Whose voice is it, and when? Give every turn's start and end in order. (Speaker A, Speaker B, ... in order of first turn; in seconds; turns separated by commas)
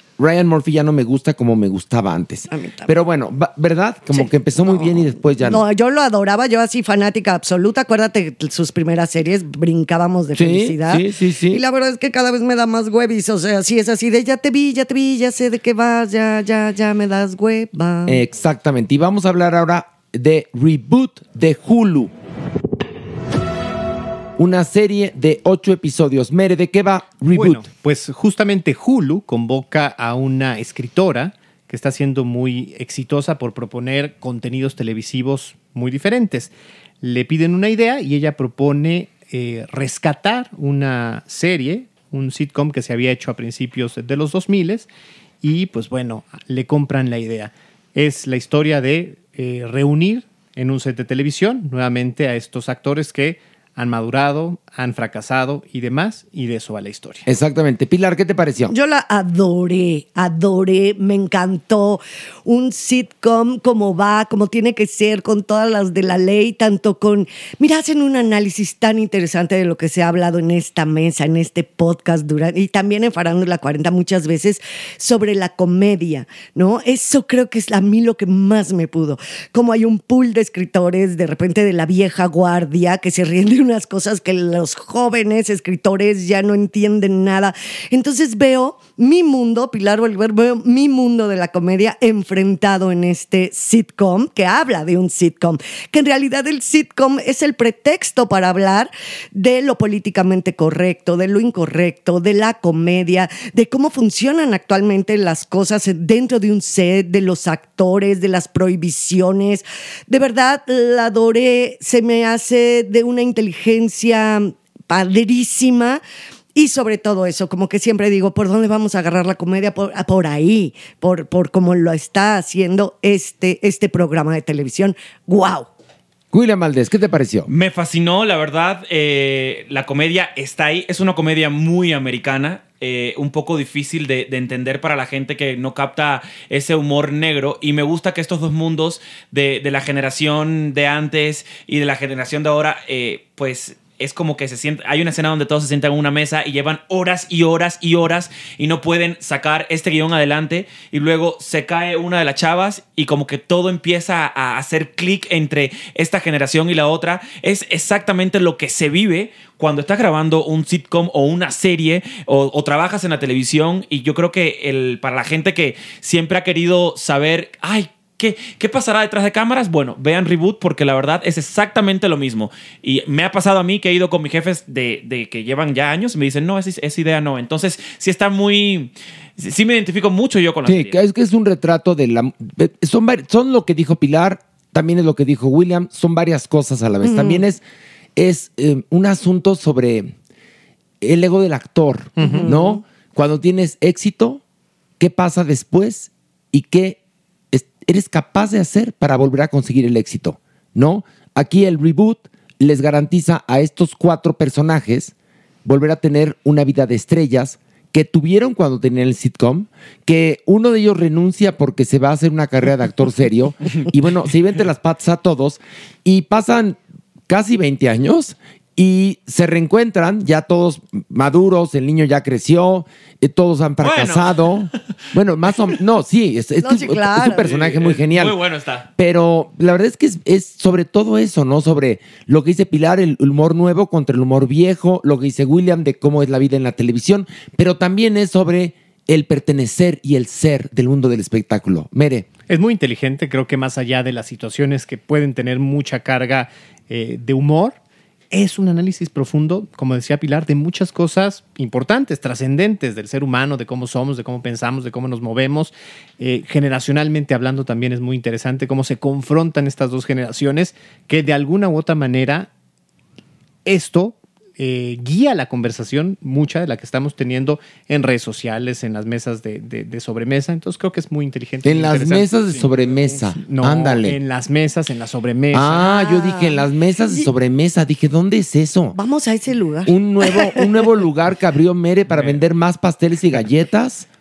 Speaker A: 0.2-5.6, Speaker B: 2.5-2.9, Speaker B: 4.1-18.2, Speaker A: 10.3-11.6, Speaker A: 18.1-22.1, Speaker A: 24.4-27.6, Speaker C: 27.3-44.9, Speaker C: 45.4-57.2, Speaker A: 57.2-58.7, Speaker B: 58.7-116.0, Speaker B: 116.5-125.7, Speaker A: 126.3-127.5, Speaker D: 127.5-181.0, Speaker A: 180.6-187.6, Speaker B: 187.0-187.4, Speaker A: 188.2-190.1, Speaker A: 191.0-194.4, Speaker B: 192.2-192.8, Speaker C: 192.2-192.5, Speaker A: 195.0-197.0, Speaker A: 197.5-205.1, Speaker A: 205.6-228.4, Speaker D: 223.8-224.3, Speaker B: 226.6-227.5, Speaker D: 227.4-228.9, Speaker A: 229.0-242.3, Speaker C: 242.5-247.8, Speaker C: 248.3-262.5, Speaker C: 263.6-276.0, Speaker A: 271.6-274.2, Speaker A: 275.5-278.9, Speaker B: 275.9-276.6, Speaker B: 278.9-280.9, Speaker A: 279.9-284.1